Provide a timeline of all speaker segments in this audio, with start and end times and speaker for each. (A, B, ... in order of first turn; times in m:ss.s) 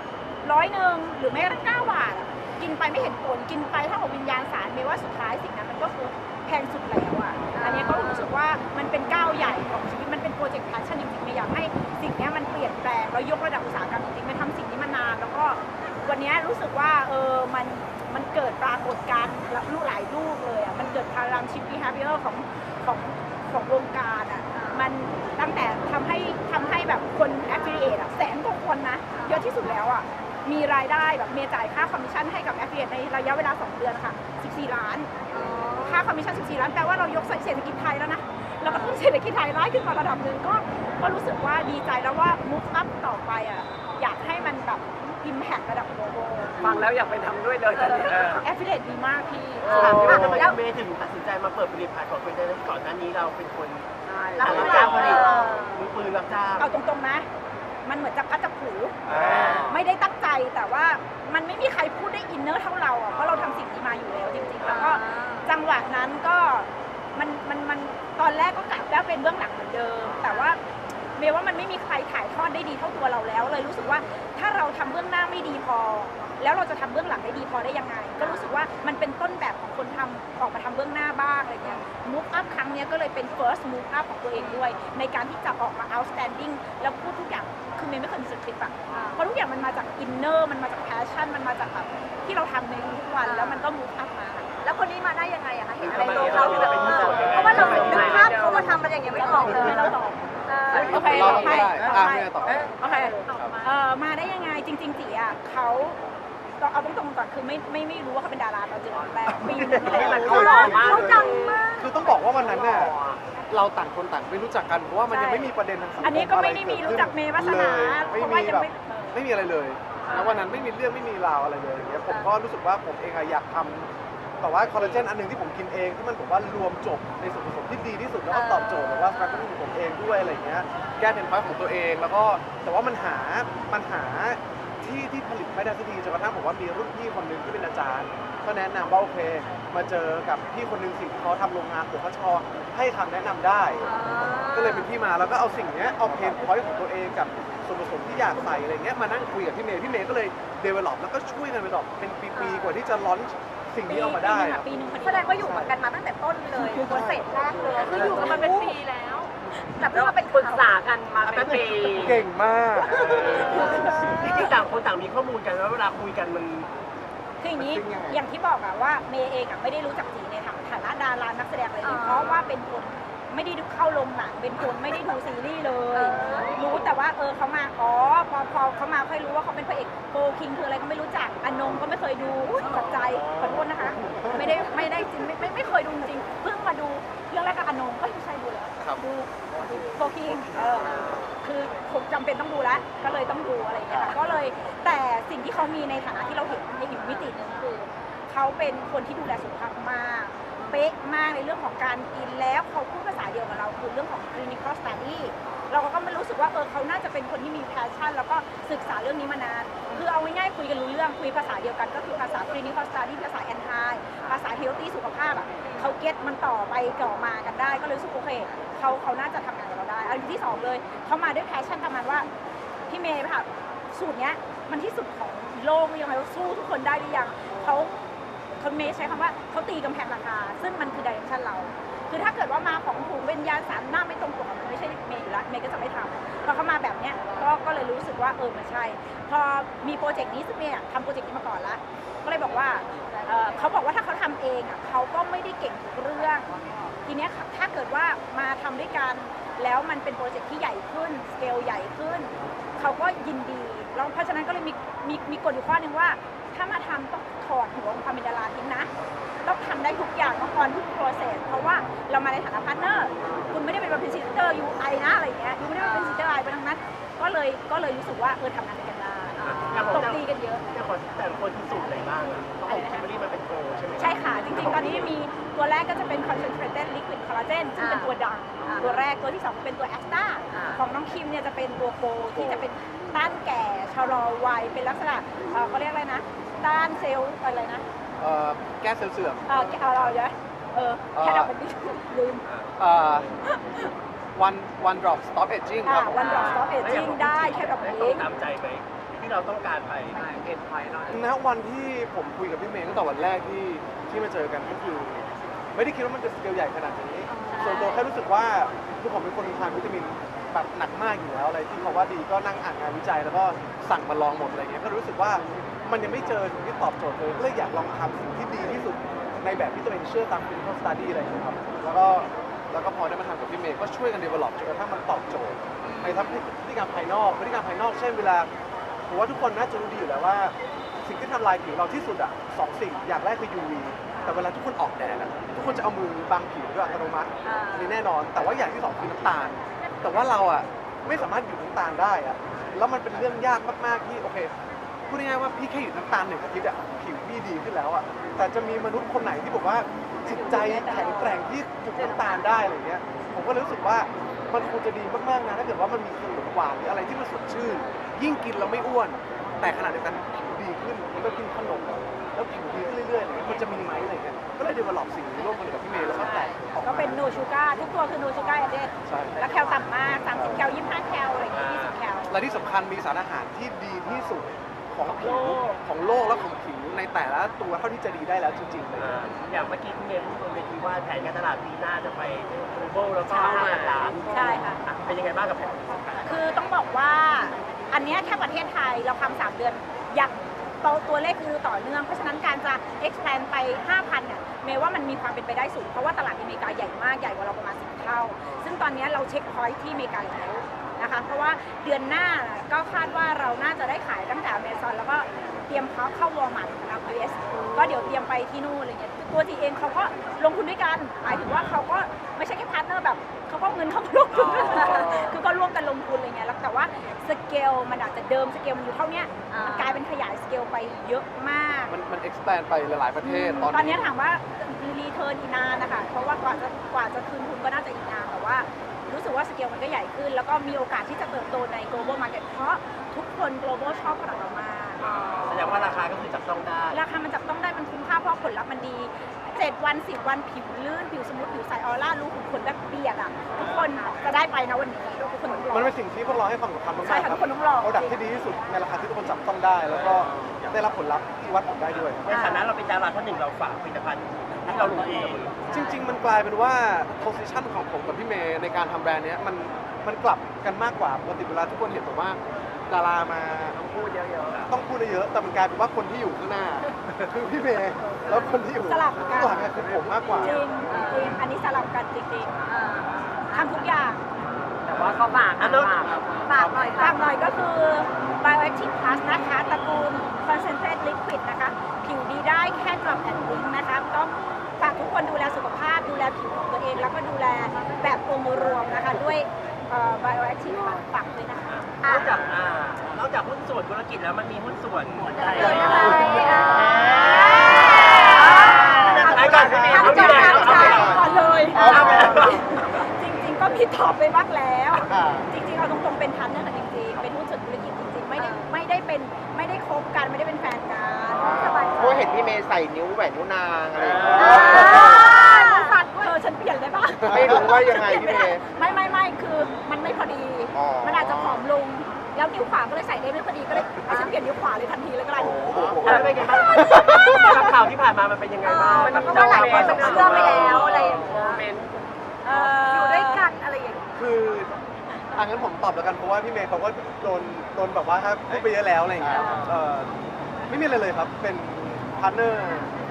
0:00.4-0:35.1 A
0:07.5-0:08.3 B
0:24.5-0:24.9 B
0:29.1-0:29.4 B
0:35.3-0:36.0 B
0:35.8-0:46.8 A
0:38.6-0:39.0 B
0:46.6-0:48.4 C
0:47.7-0:48.2 B
0:48.1-0:50.4 A
0:49.6-0:56.7 D
0:49.6-0:50.6 B
0:54.0-0:55.3 C
0:54.4-0:55.8 B
0:54.6-0:55.1 A
0:56.6-0:57.3 A
0:57.8-1:10.6 A
0:59.0-0:59.8 D
0:59.1-0:59.6 C
1:04.6-1:05.5 B
1:10.2-1:10.6 B
1:11.2-1:34.6 A
1:18.2-1:18.5 B
1:24.3-1:24.6 B
1:28.9-1:29.2 B
1:33.2-1:33.7 B
1:34.6-1:41.6 B
1:35.8-1:38.4 D
1:35.9-1:38.1 A
1:36.4-1:39.9 C
1:39.1-1:40.2 A
1:40.7-1:42.7 E
1:40.7-1:46.0 A
1:41.0-1:43.7 C
1:46.6-1:51.0 A
1:49.3-1:53.0 E
1:49.8-1:51.6 C
1:50.2-1:52.0 B
1:52.2-1:53.2 C
1:53.5-2:03.9 E
1:55.1-1:59.2 A
2:00.1-2:00.4 C
2:04.4-2:23.9 E
2:08.3-2:09.5 B
2:23.8-2:24.9 B
2:24.5-2:34.7 E
2:32.3-2:32.8 B
2:33.8-2:35.7 A
2:35.0-2:38.8 B
2:36.7-2:37.0 A
2:36.8-2:38.2 E
2:37.7-2:39.3 C
2:38.0-2:38.4 A
2:39.8-2:40.8 B
2:39.9-2:42.2 C
2:41.2-2:41.9 D
2:41.7-2:43.9 E
2:42.8-2:46.7 D
2:43.2-2:44.4 B
2:43.5-2:44.3 A
2:47.4-3:42.3 A
2:47.6-2:48.2 F
2:51.8-2:52.6 B
2:55.9-2:56.6 B
3:25.5-3:25.7 C
3:35.6-3:35.9 C
3:42.9-3:47.9 A
3:48.6-4:06.5 A
4:07.0-4:18.9 A
4:19.4-4:30.6 A
4:25.8-4:26.4 B
4:29.4-4:30.0 B
4:29.4-4:35.1 D
4:32.7-4:33.1 A
4:34.0-4:47.8 A
4:37.8-4:39.0 B
4:42.3-4:42.7 E
4:48.2-4:49.4 E
4:49.5-4:52.4 A
4:51.1-4:51.5 E
4:52.4-4:52.7 D
4:52.8-4:53.4 E
4:53.4-4:53.9 A
4:54.3-4:56.3 E
4:55.8-4:58.3 A
4:56.2-5:00.5 D
5:00.2-5:01.2 C
5:01.1-5:05.2 E
5:05.7-5:28.5 E
5:07.3-5:08.0 B
5:29.1-5:44.5 E
5:34.2-5:34.4 B
5:37.4-5:38.0 B
5:45.1-6:07.2 E
5:50.3-5:51.4 A
6:06.8-6:12.3 A
6:09.0-6:09.6 E
6:10.3-6:10.6 E
6:11.5-6:12.0 D
6:12.3-6:19.3 E
6:15.2-6:15.6 D
6:19.0-6:26.5 D
6:23.3-6:24.8 A
6:26.2-7:01.9 A
6:54.3-6:55.2 D
6:54.6-6:55.3 B
6:59.5-7:00.0 B
7:01.9-7:04.1 E
7:03.2-7:15.9 A
7:15.0-7:17.0 D
7:16.9-7:25.9 A
7:25.7-7:32.3 E
7:27.0-7:28.2 A
7:32.2-7:35.6 D
7:32.3-7:32.6 B
7:34.7-7:35.0 E
7:35.7-7:36.0 B
7:35.7-7:43.8 E
7:43.8-7:44.7 D
7:44.7-7:50.6 E
7:48.8-7:49.7 A
7:50.4-7:52.6 A
7:50.9-7:51.4 B
7:52.6-7:53.8 B
7:53.5-7:54.2 A
7:54.9-7:56.4 C
7:54.9-7:56.7 D
7:56.4-7:57.4 B
7:57.0-8:11.8 A
8:11.7-8:16.8 D
8:12.0-8:12.4 B
8:15.4-8:19.1 B
8:15.6-8:16.0 F
8:15.7-8:32.0 A
8:17.4-8:23.1 D
8:19.1-8:22.4 F
8:20.0-8:20.8 B
8:21.8-8:22.2 B
8:25.1-8:25.4 F
8:28.4-8:28.7 B
8:31.3-8:32.4 B
8:31.3-8:35.3 F
8:34.3-8:36.0 B
8:34.4-8:45.7 A
8:37.3-8:38.6 F
8:40.7-8:41.6 F
8:44.1-8:44.3 B
8:45.3-8:47.5 F
8:46.0-8:51.9 D
8:48.6-8:51.6 B
8:49.0-8:50.3 C
8:49.4-8:50.2 F
8:50.1-8:50.6 E
8:51.0-8:51.6 C
8:52.4-8:53.5 A
8:52.5-8:54.1 B
8:54.1-8:54.7 E
8:55.3-9:00.1 E
8:59.2-8:59.6 F
9:00.7-9:02.9 E